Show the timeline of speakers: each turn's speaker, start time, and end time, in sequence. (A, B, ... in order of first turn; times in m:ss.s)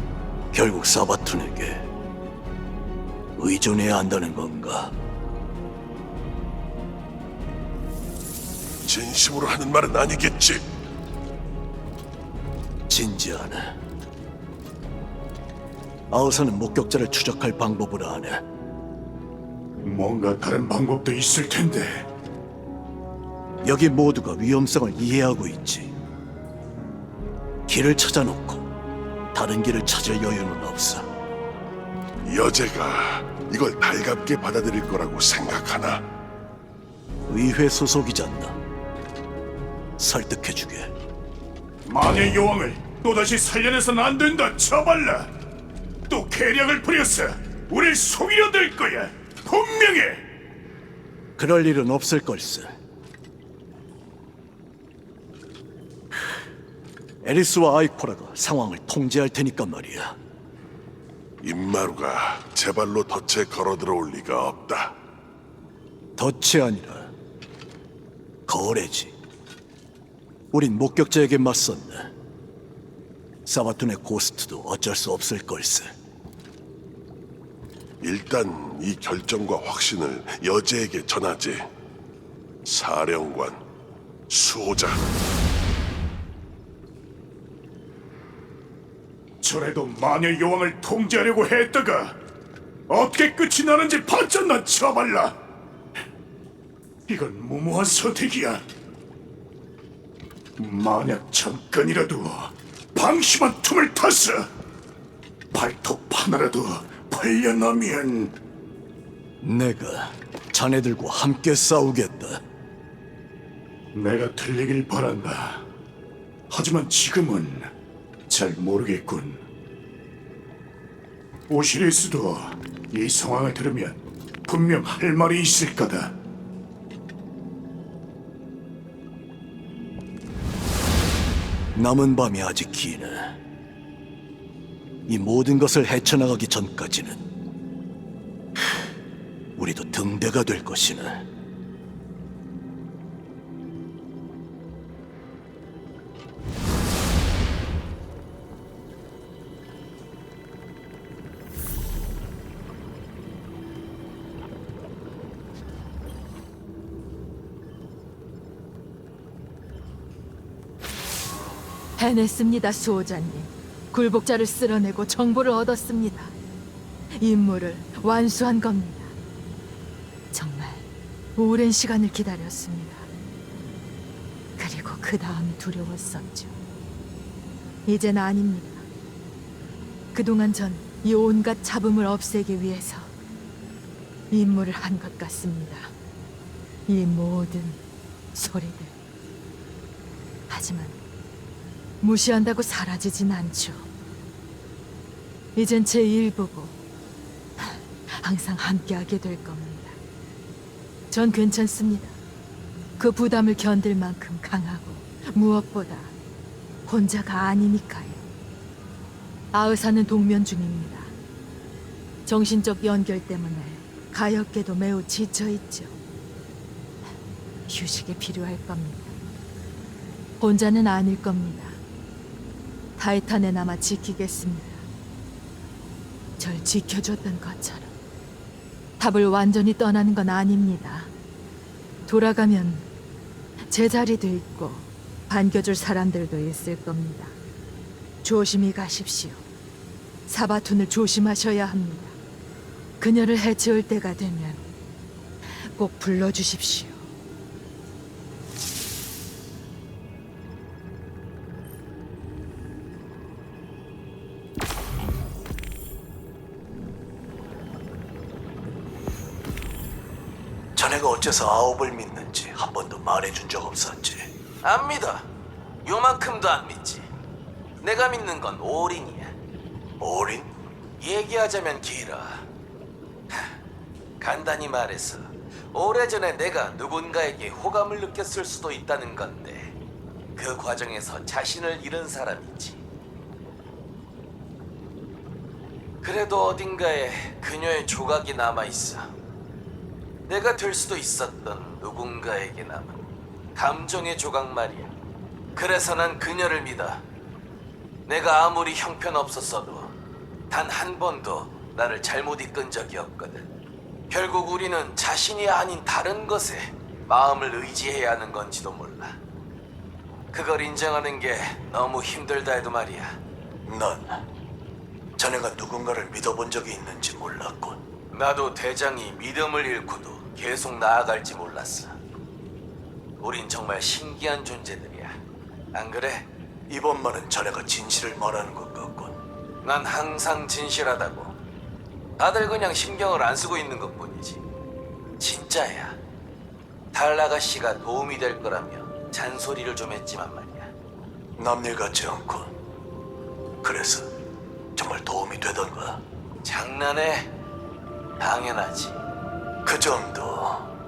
0:00.5-0:01.9 A
0:03.4-0:04.9 A
0:08.8-0:10.6 B
0:12.9-0:13.8 A
0:16.1-0:18.4 A
0:19.8-0:22.1 C
0:23.6-0:25.9 A
0:27.7-0:28.7 A
0:29.3-0:31.0 A
0:32.2-0:36.0 B
0:37.3-0:38.6 A
0:40.0-0:40.9 A
0:41.8-0:45.3 C
0:46.1-0:50.3 C
0:51.4-0:52.7 A
0:57.2-1:00.2 A
1:01.4-1:05.0 B
1:06.2-1:07.1 A
1:08.5-1:09.1 A
1:10.5-1:12.1 A
1:13.5-1:15.9 A
1:18.0-1:21.7 B
1:22.6-1:23.6 B
1:24.3-1:25.1 B
1:29.4-1:32.2 C
1:32.9-1:35.4 C
1:37.1-1:38.6 C
1:40.6-1:44.5 C
1:45.5-1:48.3 C
1:49.4-1:52.4 A
1:53.9-1:55.7 C
1:56.5-1:57.7 C
1:58.3-1:59.4 C
2:01.5-2:06.2 C
2:11.8-2:13.4 A
2:15.1-2:17.2 A
2:19.6-2:21.3 A
2:42.0-2:46.3 D
2:47.1-2:49.2 D
2:50.3-2:53.1 D
2:54.6-2:56.5 D
2:57.9-2:58.9 D
3:00.1-3:03.1 D
3:04.3-3:05.9 D
3:06.9-3:07.8 D
3:08.3-3:09.0 D
3:10.5-3:11.0 D
3:12.0-3:13.9 D
3:15.6-3:16.8 D
3:17.6-3:20.0 D
3:21.1-3:22.2 D
3:23.0-3:26.2 D
3:26.9-3:28.2 D
3:29.5-3:31.1 D
3:32.2-3:36.0 D
3:37.7-3:39.2 D
3:40.4-3:41.8 D
3:43.0-3:44.9 D
3:46.4-3:47.9 D
3:49.0-3:51.1 D
3:52.1-3:52.9 D
3:53.6-3:57.4 D
3:58.2-3:59.4 D
4:00.3-4:02.2 D
4:03.0-4:04.6 D
4:05.5-4:07.1 D
4:20.8-4:24.3 A
4:24.6-4:25.3 E
4:25.8-4:27.0 E
4:27.8-4:29.3 E
4:30.0-4:30.5 A
4:31.0-4:32.5 E
4:34.2-4:39.7 E
4:40.4-4:42.8 E
4:46.0-4:49.1 E
4:50.3-4:53.0 E
4:53.6-4:54.9 E
4:55.6-4:57.0 E
4:58.1-4:59.9 E
5:00.5-5:03.5 E
5:04.1-5:09.2 E
5:10.3-5:13.2 E
5:13.7-5:14.2 A
5:15.2-5:17.8 A
5:18.1-5:22.0 E
5:23.2-5:25.2 E
5:25.7-5:26.3 E
5:26.7-5:29.2 A
5:29.6-5:31.4 E
5:32.2-5:34.4 E
5:35.2-5:36.0 E
5:36.9-5:40.7 E
5:41.4-5:42.5 A
5:43.6-5:44.1 A
5:44.8-5:46.0 A
5:46.4-5:47.3 E
5:48.2-5:49.0 E
5:49.6-5:50.7 A